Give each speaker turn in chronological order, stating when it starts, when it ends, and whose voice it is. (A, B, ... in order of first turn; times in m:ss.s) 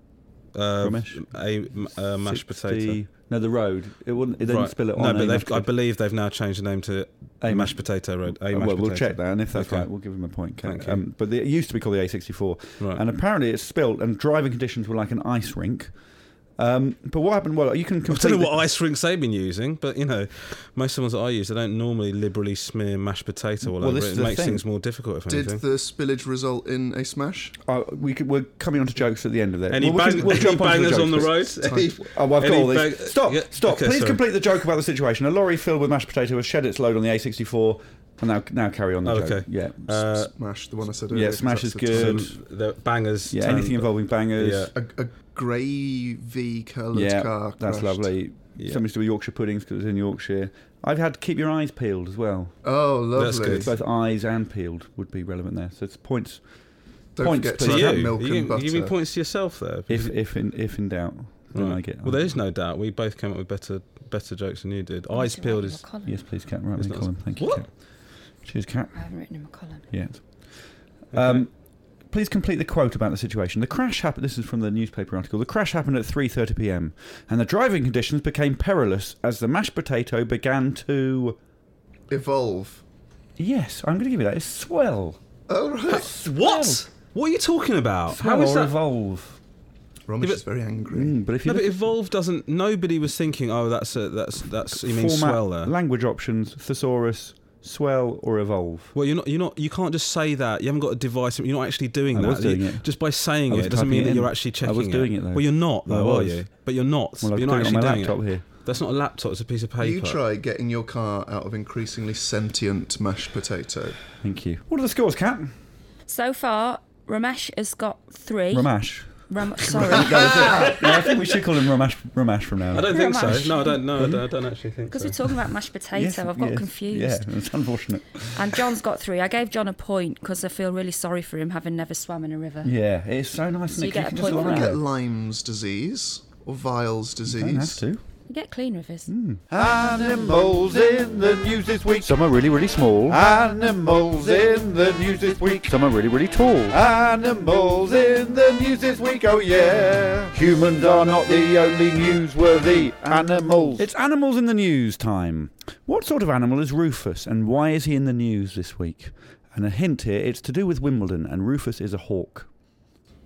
0:00.5-0:03.0 A
0:00.8-0:01.3 B
0:02.2-0:05.7 B
0:04.4-0:09.9 A
0:07.4-0:15.9 B
0:10.6-0:11.0 A
0:16.6-0:18.6 B
0:18.1-0:25.6 A
0:23.6-0:24.6 B
0:25.3-0:27.5 C
0:27.6-0:40.3 B
0:29.7-0:34.2 A
0:30.1-0:30.5 C
0:31.6-0:32.0 C
0:39.0-0:40.3 A
0:40.4-0:42.3 C
0:41.1-0:42.4 B
0:41.9-0:44.7 A
0:43.3-0:44.7 B
0:44.7-0:48.1 C
0:46.9-0:52.6 B
0:52.6-0:53.8 C
0:53.1-0:53.7 A
0:53.4-0:56.4 B
0:57.2-0:58.9 C
0:57.2-0:58.1 B
0:57.6-1:00.1 A
0:59.9-1:02.4 B
1:01.5-1:05.8 A
1:05.1-1:06.2 D
1:06.0-1:07.7 B
1:06.8-1:07.6 A
1:08.4-1:09.0 B
1:08.9-1:09.9 D
1:09.9-1:10.2 B
1:11.1-1:11.5 B
1:11.1-1:11.4 A
1:12.1-1:21.4 B
1:22.1-1:22.8 C
1:23.4-1:25.2 B
1:25.5-1:26.1 C
1:25.9-1:28.8 A
1:25.9-1:26.8 B
1:28.1-1:29.4 B
1:30.1-1:31.2 C
1:30.9-1:31.8 B
1:31.4-1:35.7 A
1:34.7-1:38.9 B
1:38.9-1:50.2 A
1:42.1-1:42.9 B
1:43.5-1:46.4 B
1:47.2-1:48.4 B
1:49.8-1:54.0 C
1:54.2-1:55.5 B
1:56.1-2:00.8 D
1:58.5-2:02.9 B
2:00.1-2:00.8 C
2:02.7-2:05.1 A
2:02.9-2:03.8 D
2:04.0-2:04.2 B
2:04.9-2:07.3 D
2:05.9-2:08.6 B
2:08.3-2:12.7 D
2:12.6-2:14.8 B
2:13.7-2:14.7 D
2:13.9-2:17.8 C
2:17.2-2:18.0 B
2:18.3-2:19.1 D
2:19.1-2:19.5 B
2:19.5-2:22.1 E
2:22.0-2:23.2 B
2:23.1-2:33.8 E
2:25.8-2:26.7 B
2:33.8-2:42.5 B